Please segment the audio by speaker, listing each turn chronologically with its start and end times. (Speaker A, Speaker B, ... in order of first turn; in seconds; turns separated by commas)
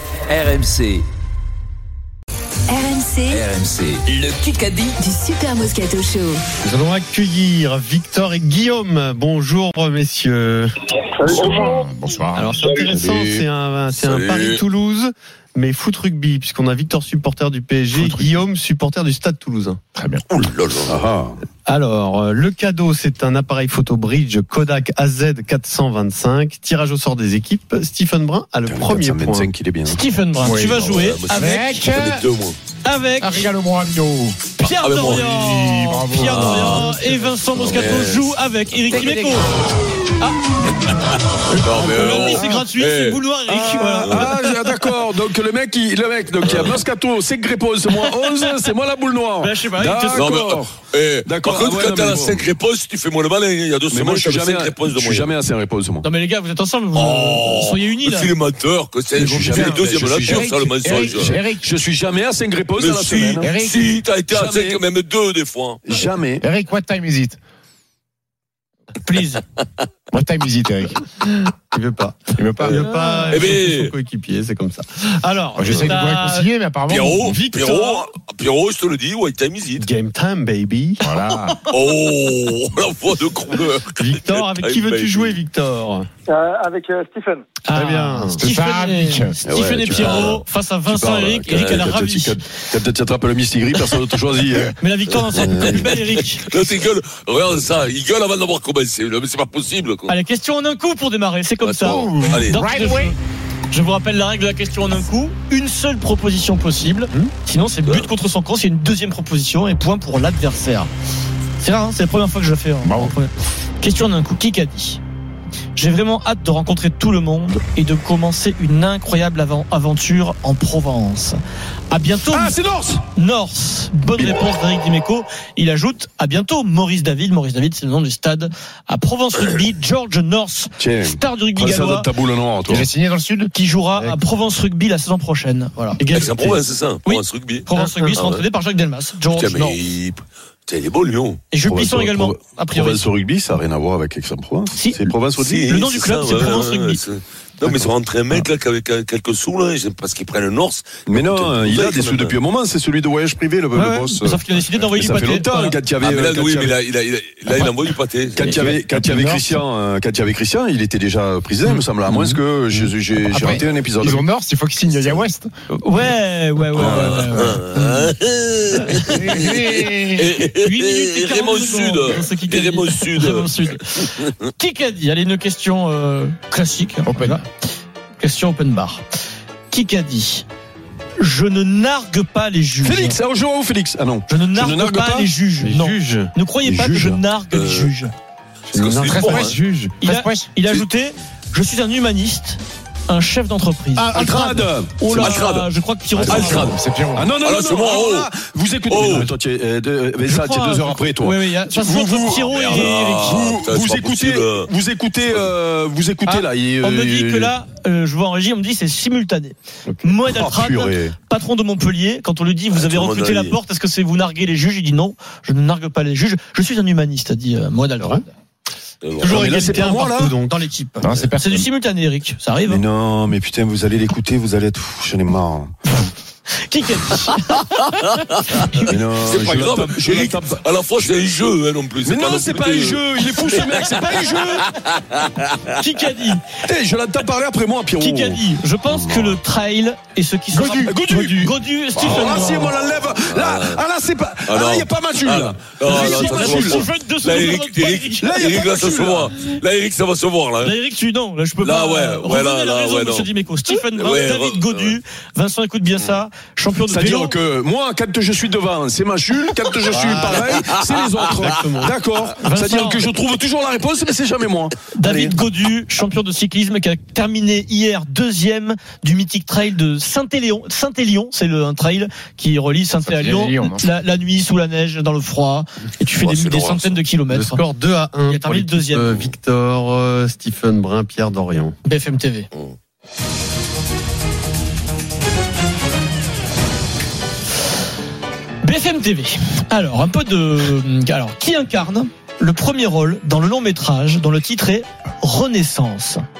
Speaker A: 0.3-1.0, Speaker B: 2.7-3.4, Speaker A: 3.4-5.0, Speaker B: 5.0-6.4, Speaker C: 6.6-10.7, Speaker D: 11.2-11.9, Speaker E: 11.3-12.7, Speaker C: 12.3-19.8, Speaker F: 12.9-13.5, Speaker G: 13.9-14.6, Speaker E: 17.9-18.3, Speaker E: 20.0-20.2, Speaker G: 20.3-21.1, Speaker F: 20.9-21.4, Speaker C: 21.7-29.5, Speaker F: 28.7-30.0, Speaker H: 29.9-31.8, Speaker E: 30.4-32.2, Speaker G: 30.5-32.6, Speaker H: 32.8-33.5, Speaker E: 33.2-34.5, Speaker H: 34.6-40.5, Speaker G: 34.6-35.4, Speaker E: 35.4-37.2, Speaker G: 36.2-38.4, Speaker G: 38.9-39.2, Speaker H: 41.5-44.6, Speaker G: 41.5-43.2, Speaker F: 42.0-42.6, Speaker F: 43.5-52.5, Speaker G: 43.9-44.3, Speaker G: 46.4-46.8, Speaker H: 49.4-50.3, Speaker G: 50.1-55.4, Speaker F: 53.9-56.1, Speaker H: 56.0-58.3, Speaker G: 56.9-61.4, Speaker E: 59.2-61.6, Speaker F: 59.2-63.5, Speaker G: 62.8-65.8, Speaker E: 63.4-63.9, Speaker F: 64.3-64.8, Speaker F: 65.8-66.5, Speaker E: 66.4-67.4, Speaker H: 69.0-69.4, Speaker E: 70.1-71.1, Speaker C: 71.7-76.2, Speaker E: 72.3-72.8, Speaker G: 72.6-73.9, Speaker H: 73.0-73.3, Speaker E: 75.5-77.4, Speaker H: 75.7-76.5, Speaker G: 76.9-79.9, Speaker H: 77.3-78.1, Speaker C: 79.8-81.0, Speaker E: 81.0-81.6, Speaker G: 81.7-85.4, Speaker C: 84.0-86.1, Speaker D: 86.3-87.5, Speaker H: 87.7-92.4, Speaker C: 87.7-88.4, Speaker E: 88.3-89.4, Speaker F: 89.5-94.8, Speaker G: 89.9-90.4, Speaker G: 91.5-91.9, Speaker H: 94.8-96.5, Speaker G: 95.1-100.1, Speaker F: 95.3-95.9, Speaker H: 100.1-103.2, Speaker G: 101.6-102.6, Speaker E: 101.9-103.2, Speaker H: 103.7-110.9, Speaker G: 107.8-108.1, Speaker H: 111.6-115.0, Speaker E: 112.8-113.1, Speaker H: 115.8-121.4, Speaker H: 121.9-122.6, Speaker F: 122.2-123.0, Speaker H: 123.2-132.1, Speaker F: 124.2-124.4, Speaker F: 130.8-132.9, Speaker E: 132.7-133.5, Speaker H: 133.5-136.2, Speaker C: 136.0-136.6, Speaker G: 136.1-138.4, Speaker H: 137.1-139.8, Speaker C: 137.7-138.2, Speaker G: 139.3-141.4, Speaker H: 141.5-143.0, Speaker F: 141.6-145.8, Speaker H: 144.7-145.2, Speaker G: 145.4-152.4, Speaker H: 145.7-147.0, Speaker F: 151.1-154.4, Speaker H: 153.7-155.8, Speaker F: 154.9-156.8, Speaker G: 156.0-158.6, Speaker F: 158.4-164.2, Speaker E: 158.4-159.6, Speaker E: 162.2-165.5, Speaker H: 165.7-167.7, Speaker G: 166.7-174.3, Speaker F: 166.8-167.3, Speaker E: 169.0-170.3, Speaker H: 170.6-177.4, Speaker E: 177.1-177.4, Speaker H: 178.2-179.0, Speaker H: 179.7-180.5, Speaker H: 181.2-183.2, Speaker F: 182.8-185.3, Speaker H: 184.3-188.1, Speaker C: 185.6-186.3, Speaker F: 186.6-187.2, Speaker G: 187.5-187.9, Speaker G: 188.7-189.6, Speaker C: 188.7-190.0, Speaker E: 189.0-190.5, Speaker H: 190.0-196.8, Speaker C: 194.0-194.6, Speaker F: 194.1-195.3, Speaker G: 195.1-195.7, Speaker E: 196.2-197.3, Speaker G: 196.3-196.8, Speaker F: 197.1-207.5, Speaker G: 197.4-198.3, Speaker G: 198.9-199.3, Speaker H: 200.3-203.5, Speaker G: 202.4-204.7, Speaker G: 205.3-205.5, Speaker H: 206.3-218.3, Speaker C: 209.9-210.2, Speaker F: 210.3-211.2, Speaker G: 212.7-213.6, Speaker G: 219.0-219.4, Speaker H: 219.2-222.8, Speaker C: 219.2-220.5, Speaker F: 219.2-220.3, Speaker E: 221.0-221.7, Speaker F: 222.7-225.7, Speaker H: 226.7-228.9, Speaker F: 228.8-230.6, Speaker G: 229.2-235.5, Speaker F: 232.0-234.7, Speaker H: 233.6-234.5, Speaker H: 235.8-236.4, Speaker F: 236.7-239.4, Speaker H: 238.0-242.8, Speaker F: 240.6-246.8, Speaker G: 243.3-243.8, Speaker G: 244.5-250.7, Speaker H: 245.8-248.5, Speaker F: 248.2-249.3, Speaker H: 250.6-257.4, Speaker G: 251.6-255.0, Speaker F: 256.9-264.7, Speaker C: 259.9-262.0, Speaker G: 260.2-260.6, Speaker H: 262.4-263.1, Speaker H: 264.9-277.6, Speaker G: 265.1-265.3, Speaker E: 273.0-273.9, Speaker G: 276.2-277.0, Speaker C: 277.3-281.8, Speaker H: 278.3-279.2, Speaker H: 281.9-282.5, Speaker H: 288.6-296.2